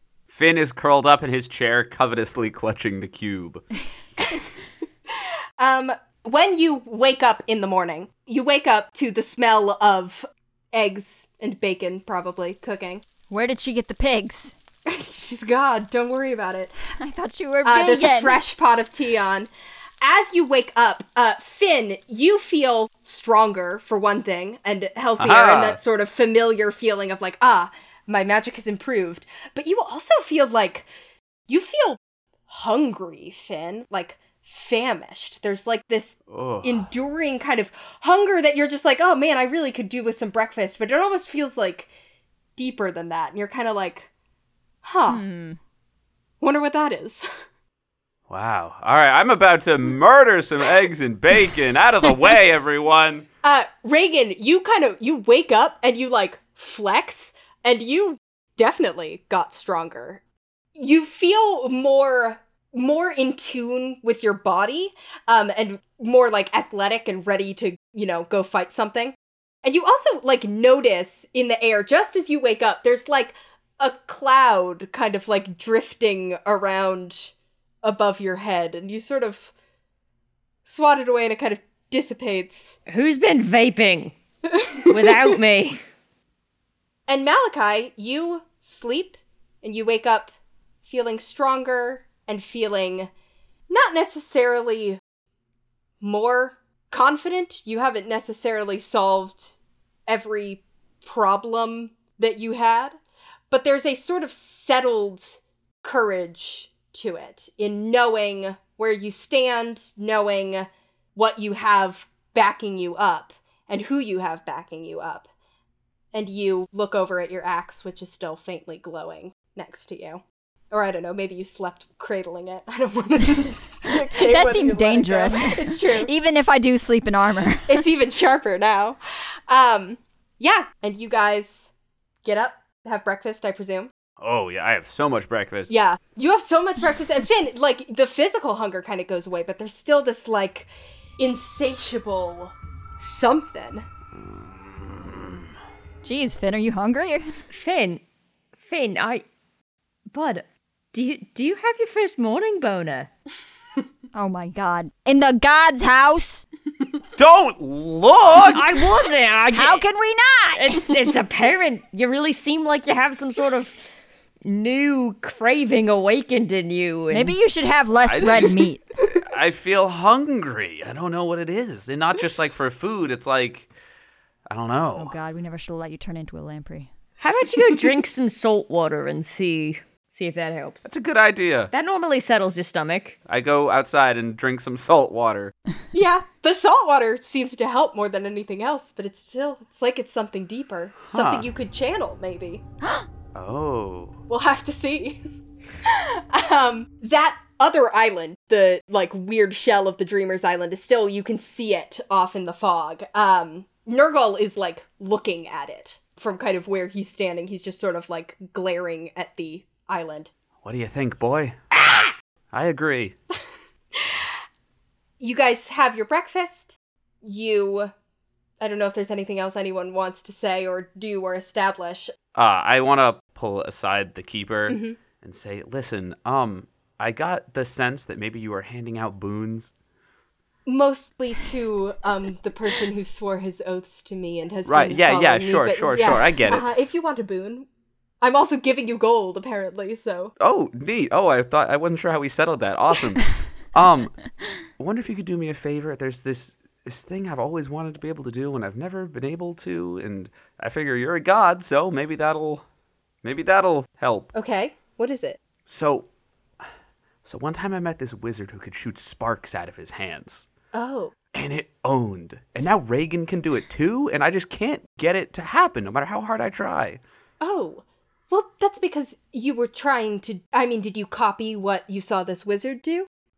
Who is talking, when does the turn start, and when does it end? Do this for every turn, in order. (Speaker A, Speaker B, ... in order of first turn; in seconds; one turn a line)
Speaker A: 0.3-3.6
Speaker B: 5.6-13.0
Speaker C: 13.3-14.5
Speaker B: 14.9-16.8
Speaker C: 17.0-18.4
Speaker B: 17.6-19.5
Speaker B: 20.0-30.9
Speaker A: 25.2-25.8
Speaker B: 31.5-41.9
Speaker A: 36.3-36.9
Speaker B: 42.6-44.1
Speaker B: 44.8-45.2
Speaker C: 45.1-45.6
Speaker B: 46.4-47.3
Speaker A: 48.3-53.3
Speaker B: 53.4-60.2
Speaker B: 60.8-79.5
Speaker B: 80.7-82.8
Speaker D: 82.9-84.2
Speaker B: 84.5-85.3
Speaker D: 84.9-85.8
Speaker B: 87.1-93.1
Speaker B: 93.7-95.0
Speaker B: 96.0-99.5
Speaker B: 100.1-102.9
Speaker B: 103.5-115.3
Speaker B: 116.1-126.1
Speaker C: 124.2-127.9
Speaker B: 127.7-131.7
Speaker B: 132.2-133.9
Speaker A: 134.2-135.7
Speaker B: 135.7-143.9
Speaker C: 146.0-147.3
Speaker D: 147.5-148.0
Speaker D: 148.6-149.2
Speaker D: 150.1-153.1
Speaker C: 154.1-156.5
Speaker A: 157.2-158.8
Speaker D: 158.4-159.8
Speaker C: 159.6-160.9
Speaker D: 160.5-163.9
Speaker D: 164.4-167.4
Speaker C: 167.1-168.8
Speaker A: 168.1-168.6
Speaker A: 169.2-173.7
Speaker A: 174.5-175.2
Speaker C: 174.9-176.9
Speaker D: 177.2-180.9
Speaker A: 180.8-181.7
Speaker D: 181.7-183.2
Speaker A: 183.3-185.5
Speaker B: 185.9-192.6
Speaker A: 191.1-191.5
Speaker A: 193.3-194.2
Speaker B: 194.3-195.2
Speaker B: 195.8-210.3
Speaker A: 210.6-213.2
Speaker B: 215.2-217.9
Speaker B: 218.6-222.1
Speaker A: 222.3-229.7
Speaker B: 224.7-225.0
Speaker B: 230.7-237.7
Speaker A: 234.7-236.6
Speaker B: 238.2-240.3
Speaker A: 240.4-244.2
Speaker A: 244.8-252.6
Speaker A: 253.2-254.3
Speaker B: 254.3-255.4
Speaker A: 255.7-256.1
Speaker A: 257.2-260.5
Speaker B: 260.7-261.1
Speaker A: 261.3-267.0
Speaker B: 267.4-273.1